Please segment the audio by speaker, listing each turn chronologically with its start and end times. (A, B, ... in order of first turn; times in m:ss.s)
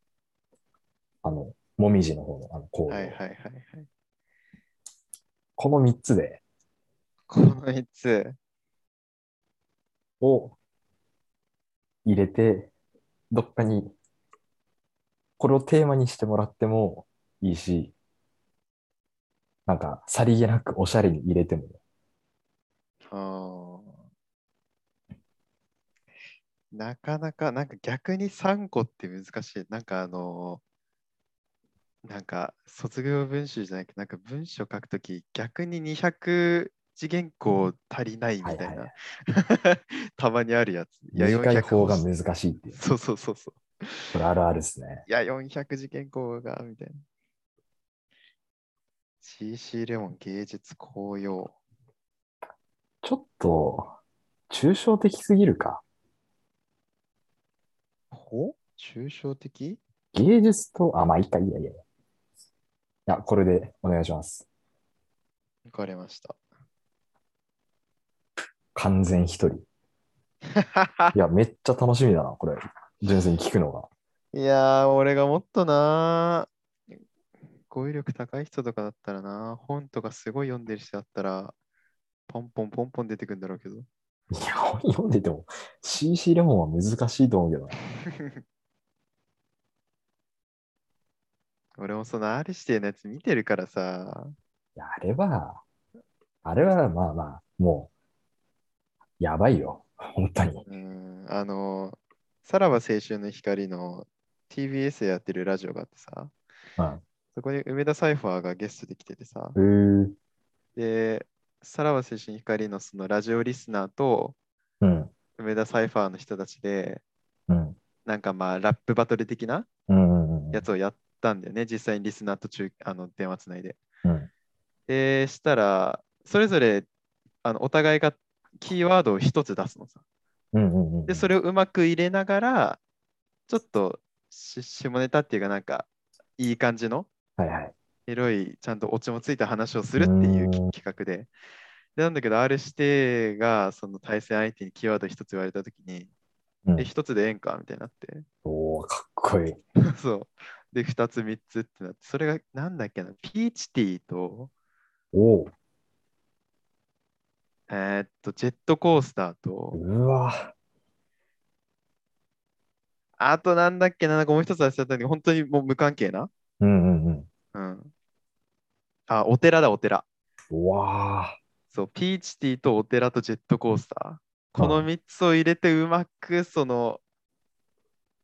0:01.2-0:03.2 A
0:02.9-0:03.9 B
0:05.6-0:06.4 A
0:07.3-0:08.4 B
0:10.2-0:10.6 A
0:12.0-0:12.7 A
0:13.3-0:13.9 A
0:15.4-0:17.9 A
0:19.6-0:21.8 A
0:23.0-0:23.9 B
0:26.7-0:30.6 B
0:32.0-0:42.0 B
0:38.4-0:38.9 A
0:41.1-0:42.8 A
0:42.7-0:44.1 B
0:44.1-0:45.0 A
0:45.1-0:47.0 B
0:49.2-0:51.6 B
0:53.0-0:53.9 A
0:54.5-0:55.8 A
0:58.1-0:59.8 B
1:00.1-1:01.8 A
1:03.1-1:04.4 A
1:05.6-1:06.4 B
1:08.7-1:09.6 A
1:10.5-1:11.1 B
1:11.1-1:13.9 A
1:14.3-1:16.5 B
1:17.7-1:21.5 B
1:22.3-1:23.9 B
1:24.3-1:27.8 A
1:28.0-1:28.4 B
1:31.8-1:34.3 B
1:34.8-1:35.6 A
1:36.4-1:37.9 A
1:39.2-1:40.6 A
1:40.6-1:46.3 B
1:47.3-1:49.6 B
1:49.6-1:50.1 A
1:50.8-1:54.4 B
1:54.8-1:55.1 A
1:55.4-1:57.0 B
1:57.5-1:57.8 A
1:58.0-1:59.7 B
1:59.9-2:00.7 A
2:00.5-2:03.8 B
2:04.0-2:04.3 A
2:04.9-2:06.9 B
2:07.4-2:10.0 B
2:10.5-2:11.3 A
2:11.1-2:12.8 B
2:13.5-2:17.1 B
2:17.4-2:17.7 A
2:18.1-2:21.3 B
2:20.0-2:20.7 A
2:22.0-2:26.1 B
2:26.8-2:28.2 B
2:28.4-2:29.6 A
2:29.8-2:34.5 B
2:35.1-2:35.5 A
2:37.7-2:39.8 B
2:39.7-2:40.5 A
2:43.2-2:46.3 B
2:46.6-2:47.3 A
2:47.5-2:47.9 B
2:49.1-2:50.0 B
2:50.5-2:51.4 A
2:51.7-2:57.0 B
2:54.6-2:54.9 A